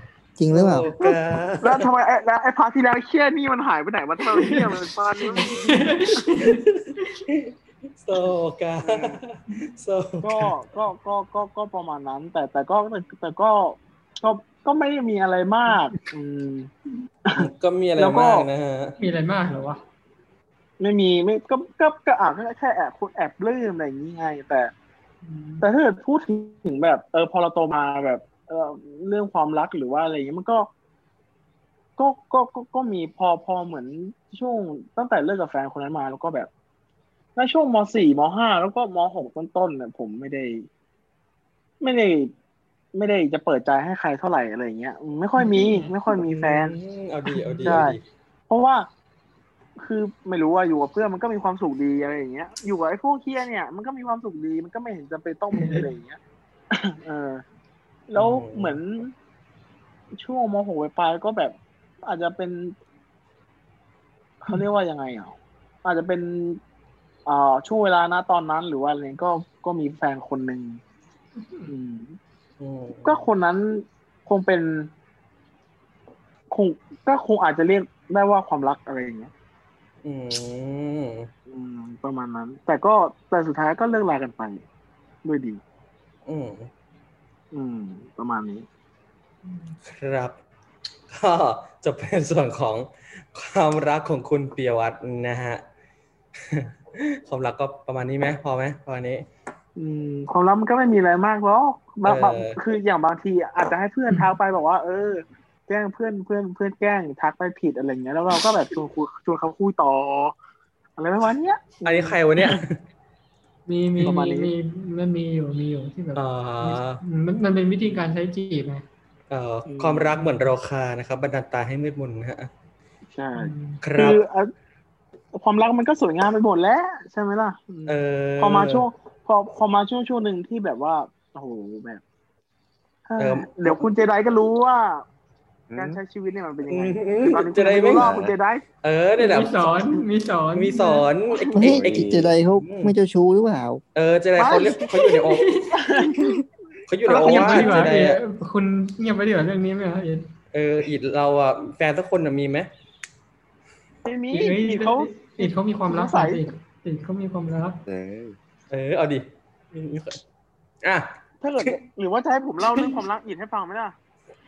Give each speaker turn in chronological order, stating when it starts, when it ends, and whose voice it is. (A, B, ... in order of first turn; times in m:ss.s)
0:00.4-0:00.9 A
0:00.5-0:01.9 B
0:01.0-0:05.8 C
0:04.3-0:04.7 D
0:05.2-0:07.2 D
0:06.5-0:10.5 B
0:08.8-0:09.2 C
0:10.2-0:16.7 C
0:17.3-0:18.5 C
0:17.4-0:19.0 B
0:19.0-0:19.8 D
0:20.8-0:24.7 C
0:25.2-0:25.7 D
0:25.6-0:30.7 C
0:32.0-0:36.5 C
0:37.4-0:40.7 C
0:41.8-0:42.3 C
0:42.9-0:46.7 C
0:45.4-0:45.9 D
0:46.1-0:48.0 B
0:47.3-0:47.8 D
0:47.6-0:48.0 C
0:48.5-0:48.9 C
0:49.8-0:56.2 C
0:55.5-0:55.9 D
0:56.7-0:57.4 C
0:58.1-0:59.1 C
0:58.2-0:58.8 B
1:00.2-1:02.8 C
1:04.4-1:06.6 C
1:07.3-1:10.8 C
1:11.4-1:11.7 D
1:11.7-1:12.2 C
1:12.6-1:13.2 B
1:13.0-1:14.9 C
1:16.5-1:19.3 C
1:20.0-1:21.3 B
1:21.5-1:24.6 C
1:25.2-1:25.6 C
1:26.3-1:26.7 B
1:27.5-1:28.7 C
1:29.5-1:29.8 D
1:29.8-1:30.4 B
1:31.1-1:35.6 B
1:36.4-1:39.3 B
1:39.8-1:50.3 C
1:42.0-1:42.6 B
1:51.0-1:52.6 C
1:51.8-1:52.8 B
1:53.7-1:58.8 D
1:54.0-1:54.5 C
1:56.2-1:57.0 B
1:59.3-2:02.5 B
1:59.7-2:00.1 C
2:03.2-2:04.5 C
2:03.4-2:03.8 D
2:03.8-2:04.2 B
2:05.3-2:12.0 C
2:07.9-2:08.9 B
2:13.1-2:15.1 C
2:13.2-2:13.8 B
2:15.7-2:16.0 E
2:15.8-2:18.6 C
2:16.7-2:18.1 B
2:18.0-2:18.3 E
2:18.8-2:20.0 B
2:19.2-2:21.1 D
2:20.6-2:23.0 B
2:21.6-2:23.8 A
2:21.6-2:22.3 E
2:24.0-2:25.6 B
2:24.4-2:24.9 C
2:24.9-2:25.8 D
2:25.7-2:26.4 C
2:26.9-2:28.2 B
2:27.1-2:27.8 C
2:27.1-2:30.3 D
2:30.5-2:32.7 B
2:34.0-2:36.4 C
2:34.3-2:37.8 D
2:37.9-2:38.4 E
2:38.7-2:40.2 B
2:40.8-2:41.8 B
2:41.4-2:44.0 C